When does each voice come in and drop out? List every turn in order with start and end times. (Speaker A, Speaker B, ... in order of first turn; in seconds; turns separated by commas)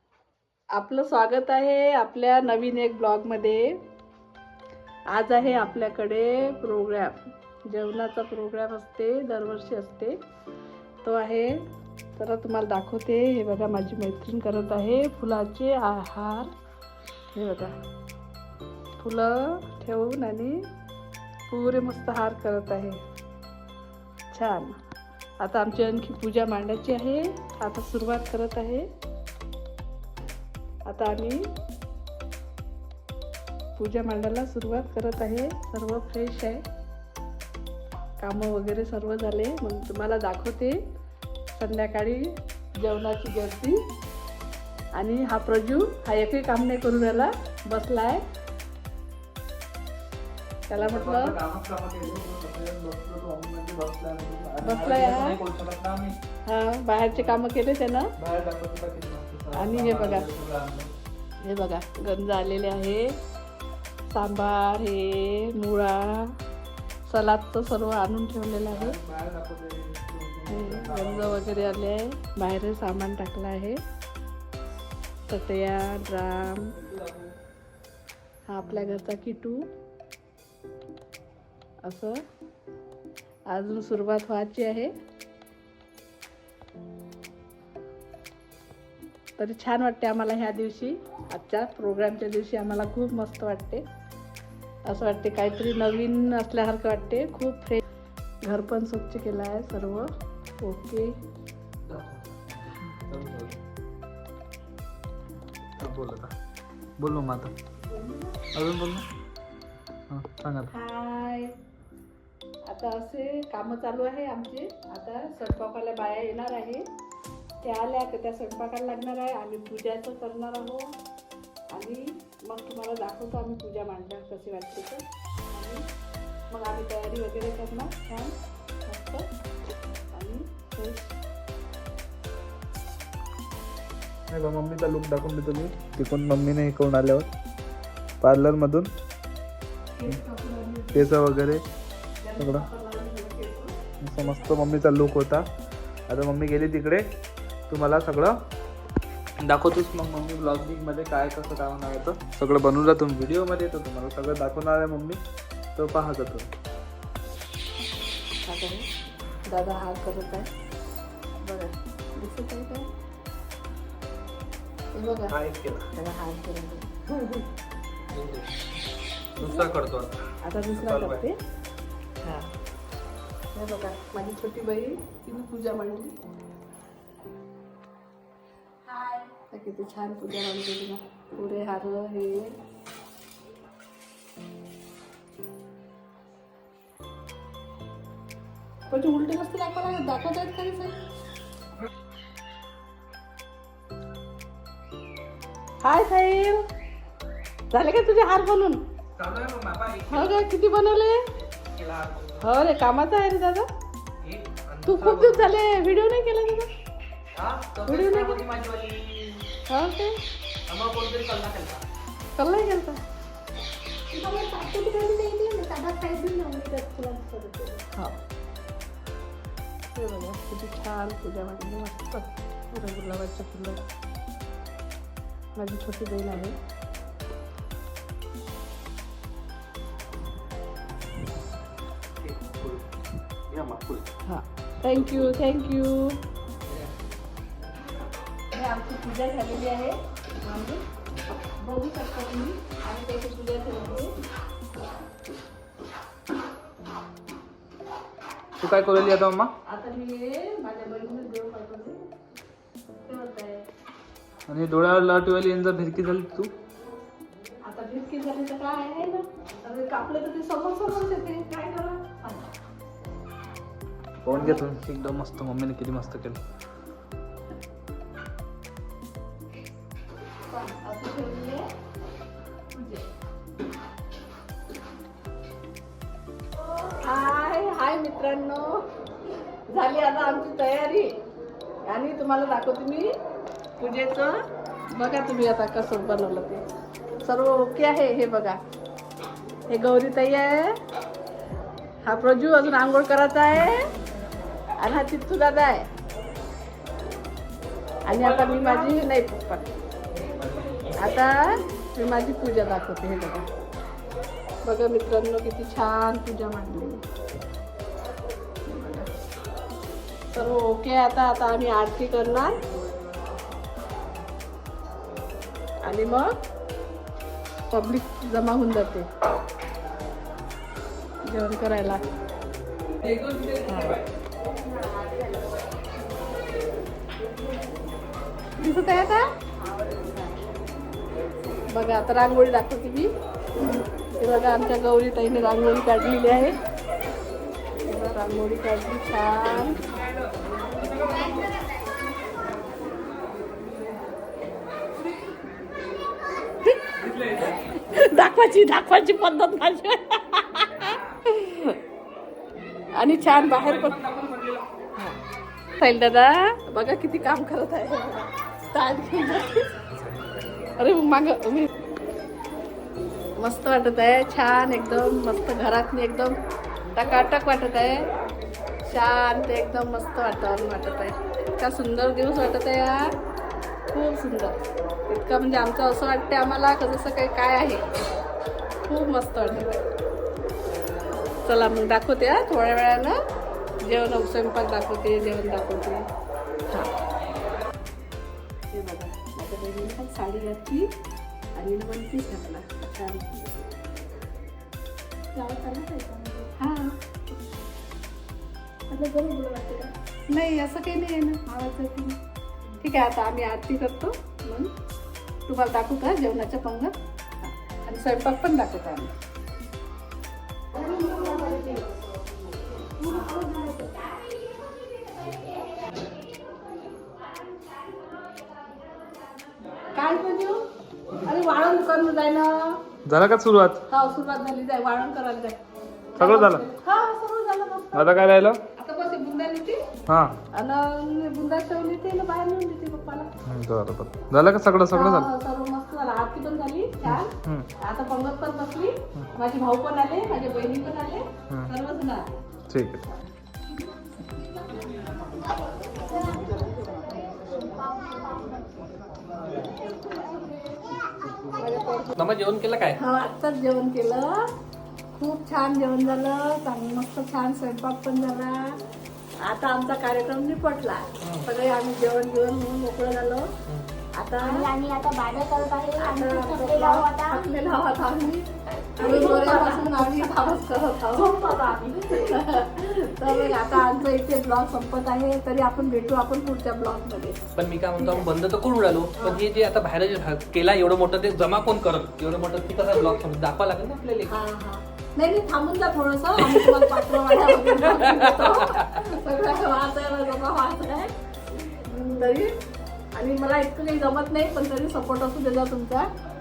Speaker A: 0.7-3.8, Speaker A: 5.1-10.2, Speaker A: 11.0-11.6, Speaker A: 12.2-16.5, Speaker A: 17.3-17.7, Speaker A: 19.0-20.6, Speaker A: 21.5-23.0, Speaker A: 24.3-24.8, Speaker A: 25.4-28.9, Speaker A: 30.9-31.5, Speaker A: 33.8-36.6, Speaker A: 38.2-40.8, Speaker A: 41.5-43.8, Speaker A: 44.9-48.2, Speaker A: 50.7-51.4, Speaker B: 50.7-56.1, Speaker A: 54.6-55.4, Speaker A: 56.5-58.1, Speaker B: 57.1-57.4, Speaker B: 58.2-60.9, Speaker A: 59.5-60.2, Speaker A: 61.4-63.1, Speaker A: 64.1-66.3, Speaker A: 67.0-69.0, Speaker B: 68.7-71.9, Speaker A: 70.5-73.8, Speaker A: 75.3-76.8, Speaker B: 76.8-77.3, Speaker A: 78.5-79.7, Speaker A: 81.8-82.2, Speaker A: 83.5-84.9, Speaker A: 89.4-93.8, Speaker A: 94.8-97.8, Speaker A: 98.4-100.0, Speaker A: 100.6-101.1, Speaker B: 101.9-103.6, Speaker B: 105.8-106.3, Speaker B: 107.0-107.5, Speaker A: 107.9-108.3, Speaker B: 108.5-109.0, Speaker B: 110.1-110.7, Speaker A: 110.7-111.5, Speaker A: 112.7-116.8, Speaker A: 117.6-120.9, Speaker A: 121.7-125.8, Speaker A: 126.5-128.3, Speaker A: 128.9-129.3, Speaker A: 130.1-131.2, Speaker B: 134.3-137.3, Speaker B: 138.2-138.9, Speaker A: 139.9-141.1, Speaker B: 140.9-141.6, Speaker A: 142.2-144.6, Speaker B: 142.4-142.7, Speaker B: 144.0-145.5, Speaker B: 146.1-147.1, Speaker B: 147.7-148.3, Speaker B: 149.4-155.2, Speaker B: 155.8-156.5, Speaker A: 158.4-158.9, Speaker A: 159.4-160.5, Speaker A: 161.4-162.9, Speaker A: 164.9-165.3, Speaker C: 165.3-165.8, Speaker A: 165.9-166.9, Speaker C: 168.1-168.4, Speaker C: 169.4-170.2, Speaker A: 169.4-169.6, Speaker A: 170.4-171.4, Speaker B: 170.7-171.2, Speaker A: 172.2-172.5, Speaker A: 173.5-176.2, Speaker A: 178.9-182.5, Speaker A: 188.9-191.0, Speaker A: 195.8-196.6, Speaker A: 197.7-198.8, Speaker C: 199.2-200.3, Speaker A: 200.1-201.2, Speaker C: 201.4-202.4, Speaker A: 202.4-203.7, Speaker C: 204.2-205.2, Speaker B: 204.8-205.4, Speaker A: 204.8-206.7, Speaker C: 207.3-209.4, Speaker A: 207.8-208.4, Speaker A: 209.7-210.2, Speaker C: 210.7-211.8, Speaker A: 212.3-213.0, Speaker D: 214.1-217.8, Speaker A: 217.9-218.2, Speaker A: 219.9-223.8, Speaker A: 225.5-226.6, Speaker C: 232.2-232.8, Speaker C: 233.5-234.0, Speaker A: 234.2-236.2, Speaker A: 238.5-240.8, Speaker A: 241.5-244.1, Speaker B: 248.6-249.5, Speaker A: 249.6-252.1, Speaker A: 253.1-253.7, Speaker B: 254.5-256.5, Speaker A: 257.6-262.5, Speaker B: 264.2-266.4, Speaker A: 264.3-264.6, Speaker A: 270.5-271.6, Speaker A: 272.7-273.0, Speaker A: 276.8-278.9, Speaker A: 279.7-281.2, Speaker A: 281.9-283.1, Speaker A: 283.8-284.4, Speaker A: 284.9-286.6, Speaker A: 287.2-288.6, Speaker A: 289.7-290.8, Speaker A: 292.0-293.9, Speaker A: 294.8-295.9, Speaker A: 298.1-299.7, Speaker C: 298.4-298.8, Speaker C: 300.5-300.9, Speaker A: 300.9-303.5, Speaker A: 304.6-307.0, Speaker A: 308.6-309.1, Speaker A: 310.3-312.6, Speaker A: 315.8-316.3, Speaker A: 317.7-319.1, Speaker A: 321.2-322.0, Speaker C: 323.0-323.9, Speaker A: 323.6-324.0, Speaker D: 324.7-325.5, Speaker A: 328.6-329.3, Speaker D: 329.8-330.2, Speaker A: 331.7-333.1, Speaker A: 334.2-336.6, Speaker A: 337.9-339.8, Speaker A: 346.6-351.8, Speaker A: 352.9-354.1, Speaker A: 355.8-359.7, Speaker A: 360.8-361.7, Speaker A: 363.4-366.4, Speaker A: 366.9-368.1, Speaker A: 368.9-373.1, Speaker A: 373.9-377.9, Speaker A: 378.9-379.9, Speaker A: 381.4-383.2, Speaker A: 383.8-386.1, Speaker A: 388.7-390.9, Speaker A: 391.6-393.4, Speaker A: 395.3-397.4, Speaker A: 398.9-402.2, Speaker A: 402.8-404.7, Speaker A: 405.5-409.1, Speaker D: 410.7-411.9, Speaker D: 413.0-415.6, Speaker A: 413.0-413.6, Speaker A: 419.9-420.6, Speaker A: 421.2-422.8, Speaker B: 423.1-423.8, Speaker A: 423.9-425.6, Speaker A: 426.1-429.8, Speaker B: 426.2-426.6, Speaker B: 427.9-428.6, Speaker B: 430.1-430.3, Speaker A: 430.5-433.3, Speaker B: 433.4-435.3, Speaker A: 434.9-442.3, Speaker B: 437.0-437.7, Speaker B: 442.7-443.1, Speaker D: 445.9-448.6, Speaker A: 446.3-446.8, Speaker A: 451.6-452.1, Speaker C: 452.1-453.0, Speaker A: 452.9-454.5, Speaker A: 455.1-458.8, Speaker A: 459.4-463.5, Speaker C: 461.2-461.5, Speaker A: 464.1-464.7, Speaker D: 464.4-467.8, Speaker A: 465.9-477.4, Speaker D: 469.0-472.2, Speaker C: 477.6-484.3, Speaker A: 478.0-478.3, Speaker A: 479.1-479.4, Speaker A: 484.2-491.1, Speaker A: 491.8-492.5, Speaker A: 493.1-496.1